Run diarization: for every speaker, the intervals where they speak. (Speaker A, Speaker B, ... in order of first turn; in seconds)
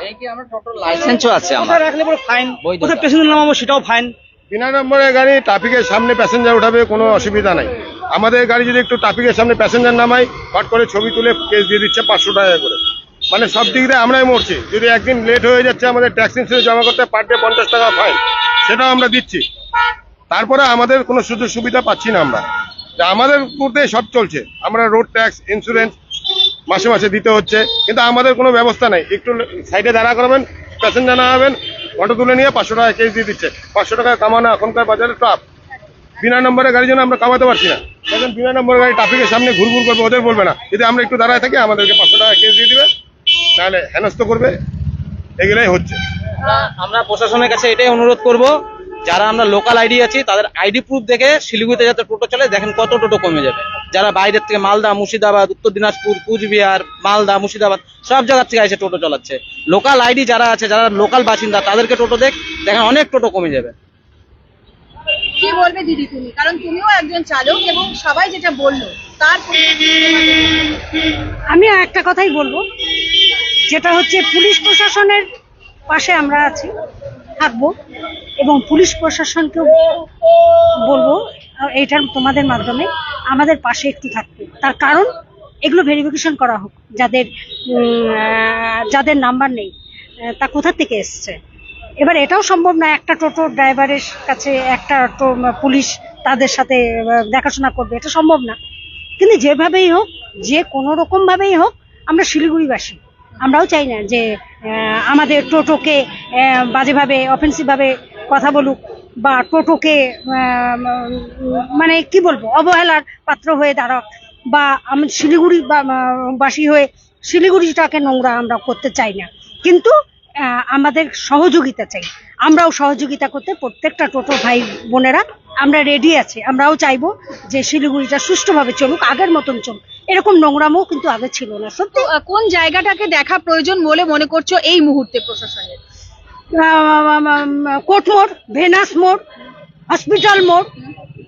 Speaker A: 0.1-1.9, 2.6-3.1
Speaker B: 1.5-4.1
Speaker C: 4.5-12.8, 13.3-19.4, 20.3-22.4, 23.0-25.9, 26.7-35.4, 36.2-42.9, 43.5-44.5, 45.4-46.0
Speaker D: 46.5-48.5, 49.0-63.7
Speaker E: 65.4-70.5, 131.9-135.8
Speaker F: 71.5-72.6, 73.7-75.2, 75.9-76.7, 77.4-77.7, 78.4-79.8, 80.8-81.2, 81.7-85.1, 85.6-89.7, 90.4-91.4, 92.0-98.6, 99.2-119.9, 120.7-132.1, 136.5-139.2, 139.9-140.7